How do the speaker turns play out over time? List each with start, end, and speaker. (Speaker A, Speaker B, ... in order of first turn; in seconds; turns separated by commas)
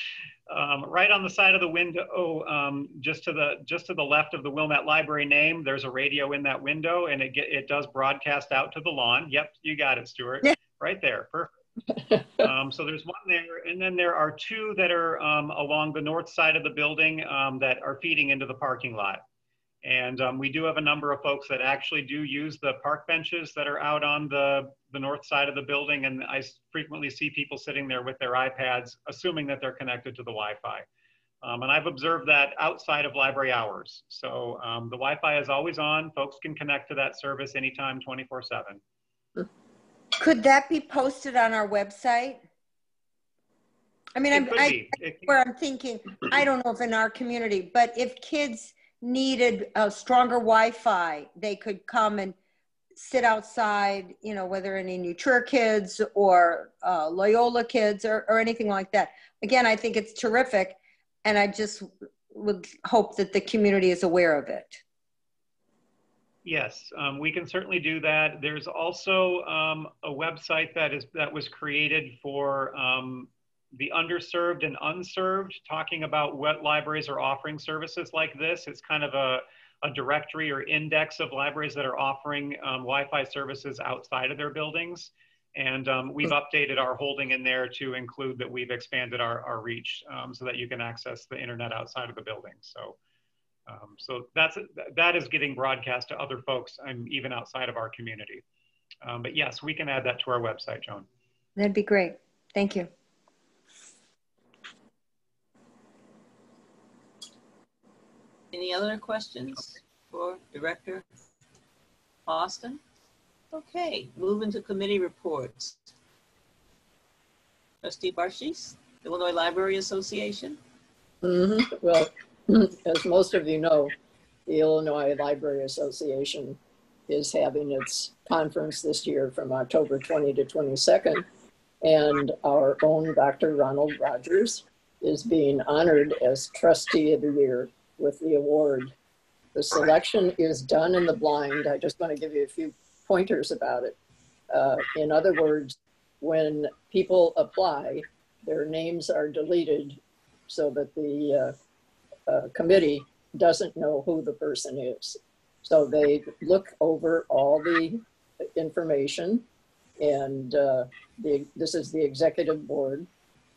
Speaker A: 0.5-11.5, Speaker A: 12.4-19.2, Speaker A: 19.8-30.9, Speaker A: 31.4-38.8, Speaker B: 40.2-42.4, Speaker B: 44.2-52.4, Speaker A: 44.3-45.4, Speaker B: 53.0-64.8, Speaker A: 66.5-93.0, Speaker A: 93.7-98.4, Speaker A: 99.0-101.1, Speaker B: 101.6-102.9, Speaker C: 108.5-111.0, Speaker C: 112.3-112.8, Speaker C: 113.5-115.9, Speaker C: 117.8-120.6, Speaker D: 121.2-123.9, Speaker D: 124.5-131.3, Speaker D: 131.8-138.9, Speaker D: 139.5-144.0, Speaker D: 144.5-151.6, Speaker D: 152.3-158.0, Speaker D: 158.5-159.5, Speaker D: 160.0-163.1